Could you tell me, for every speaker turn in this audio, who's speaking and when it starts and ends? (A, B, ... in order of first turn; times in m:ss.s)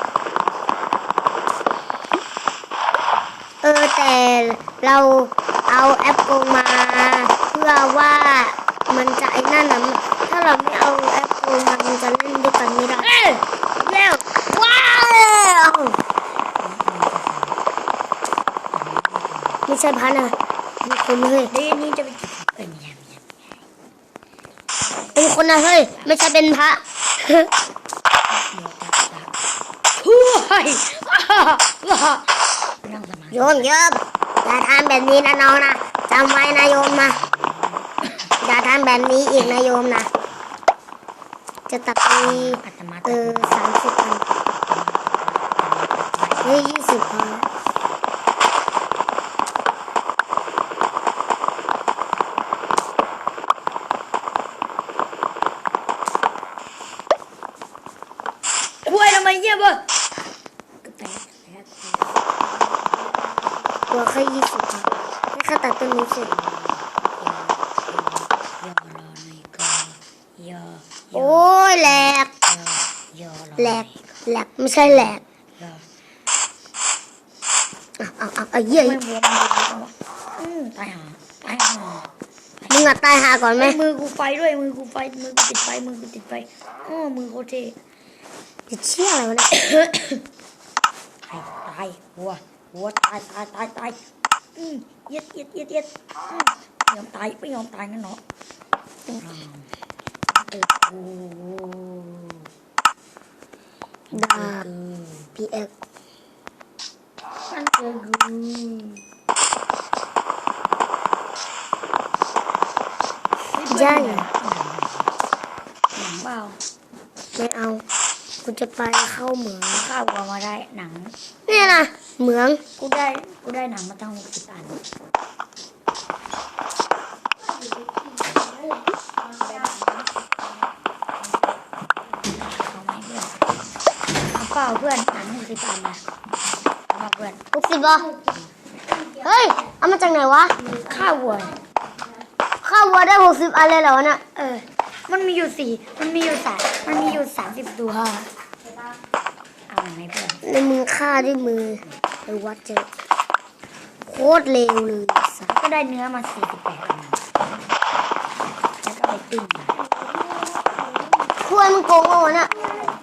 0:03.6-0:13.2 A
0:13.0-0:14.1 B
0:13.9-0:16.0 A
0:16.6-0:17.6 B
0:18.7-0:19.6 B
0:19.7-0:21.5 A
0:21.5-0:23.4 B
0:24.8-0:26.3 B
0:25.2-0:27.5 A
0:28.3-0:29.3 B
0:30.0-0:32.3 B
0:32.8-0:33.7 B
0:33.3-0:37.2 A
0:36.3-0:38.3 B
0:38.4-0:40.1 A
0:41.7-0:44.2 A
0:42.2-0:43.6 B
0:44.5-0:47.3 B
0:46.4-0:47.4 A
0:58.8-0:59.8 B
1:00.8-1:02.2 B
1:03.9-1:06.3 A
1:06.2-1:14.0 B
1:11.1-1:12.3 A
1:13.6-1:15.2 A
1:14.8-1:15.8 B
1:18.0-1:19.0 A
1:18.7-1:22.1 B
1:22.6-1:23.0 B
1:22.7-1:23.8 A
1:23.6-1:27.8 B
1:28.7-1:29.6 A
1:29.7-1:30.2 B
1:31.2-1:34.0 B
1:34.6-1:38.2 B
1:39.1-1:39.7 B
1:40.3-1:42.4 B
1:44.1-1:45.3 B
1:44.1-1:44.7 A
1:45.3-1:45.7 A
1:47.5-1:49.0 B
1:53.5-1:55.1 B
1:53.6-1:54.2 A
1:55.9-1:56.6 B
1:57.3-1:57.8 A
1:58.4-1:59.8 A
1:59.7-2:01.9 B
2:01.5-2:02.6 A
2:02.8-2:04.8 B
2:12.3-2:13.4 B
2:14.3-2:16.0 B
2:16.9-2:17.4 B
2:17.5-2:18.1 A
2:18.1-2:18.5 B
2:19.2-2:20.6 A
2:20.8-2:21.6 B
2:22.6-2:24.2 A
2:24.3-2:28.3 B
2:29.7-2:30.4 B
2:30.4-2:32.9 A
2:34.0-2:35.5 A
2:35.5-2:37.2 B
2:38.8-2:39.8 B
2:41.4-2:42.5 A